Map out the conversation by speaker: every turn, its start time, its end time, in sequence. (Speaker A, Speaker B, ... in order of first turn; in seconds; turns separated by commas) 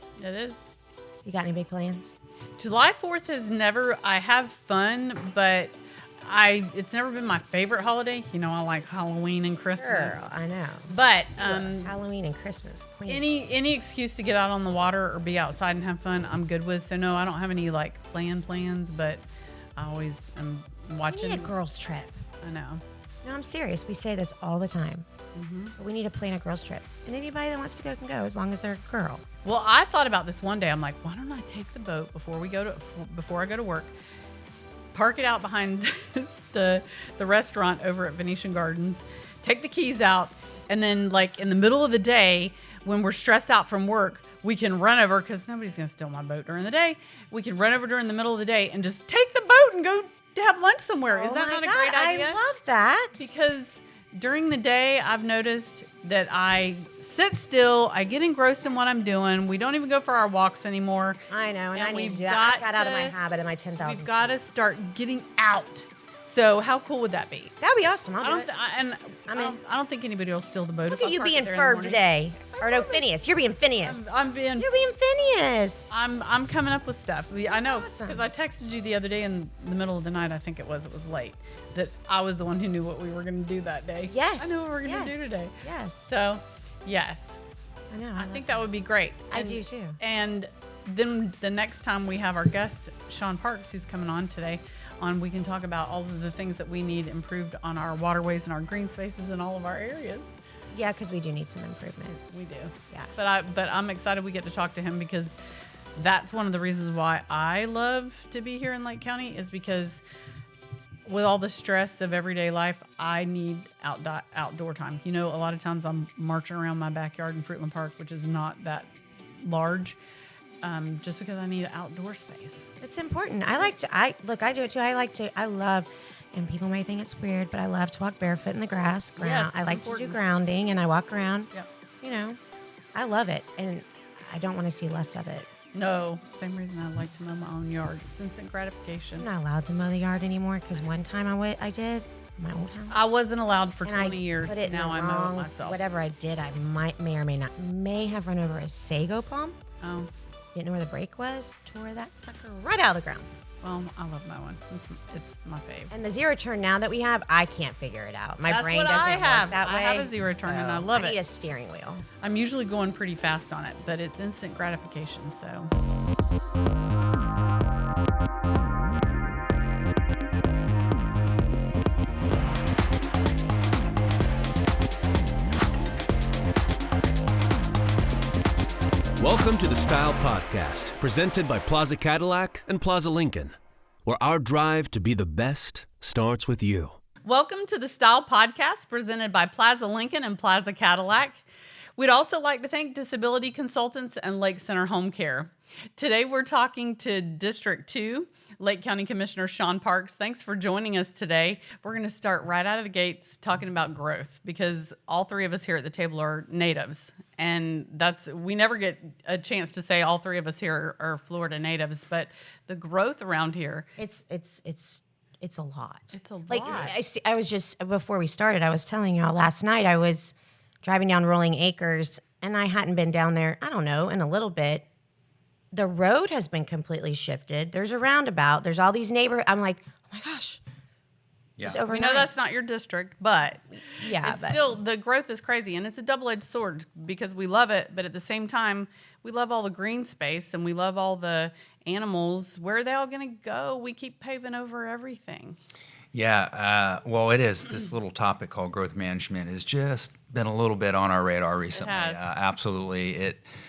Speaker A: 0.2-0.7, Speaker B: 1.2-2.1, Speaker A: 2.6-10.2, Speaker B: 9.8-13.3, Speaker A: 10.9-11.9, Speaker A: 13.1-19.2, Speaker A: 19.8-21.5, Speaker B: 21.1-22.2, Speaker A: 22.4-22.8, Speaker B: 23.2-25.1, Speaker A: 25.4-25.7, Speaker B: 25.8-29.2, Speaker A: 29.4-34.0, Speaker A: 34.9-52.4, Speaker B: 51.1-53.3, Speaker A: 53.2-61.2, Speaker B: 61.3-64.3, Speaker A: 61.7-63.1, Speaker A: 63.8-67.5, Speaker B: 67.6-68.5, Speaker A: 68.2-73.1, Speaker B: 69.3-69.6, Speaker B: 70.9-74.1, Speaker A: 73.8-74.7, Speaker B: 74.6-76.0, Speaker A: 75.9-87.4, Speaker B: 77.5-78.3, Speaker B: 84.1-86.1, Speaker B: 87.9-88.7, Speaker A: 88.2-100.3, Speaker B: 89.3-90.0, Speaker B: 100.7-103.1, Speaker A: 102.3-105.4, Speaker A: 106.0-110.0, Speaker A: 111.0-120.0, Speaker A: 120.6-122.7, Speaker B: 122.8-131.5, Speaker A: 129.2-130.2, Speaker B: 132.0-132.4, Speaker B: 132.9-135.5, Speaker A: 135.7-139.3, Speaker B: 139.2-143.0, Speaker A: 142.9-145.8, Speaker B: 143.8-149.6, Speaker A: 149.8-150.1, Speaker B: 150.5-153.3, Speaker A: 153.6-155.9, Speaker B: 155.9-162.1, Speaker A: 158.5-161.2, Speaker A: 162.2-165.7, Speaker C: 179.2-187.0, Speaker A: 187.2-191.4, Speaker A: 192.0-213.9, Speaker B: 214.0-224.9, Speaker A: 216.1-217.0, Speaker B: 225.7-230.6, Speaker D: 231.6-231.8, Speaker B: 231.6-232.3, Speaker A: 231.9-245.6, Speaker B: 233.9-234.8, Speaker D: 246.1-253.4, Speaker A: 251.7-252.2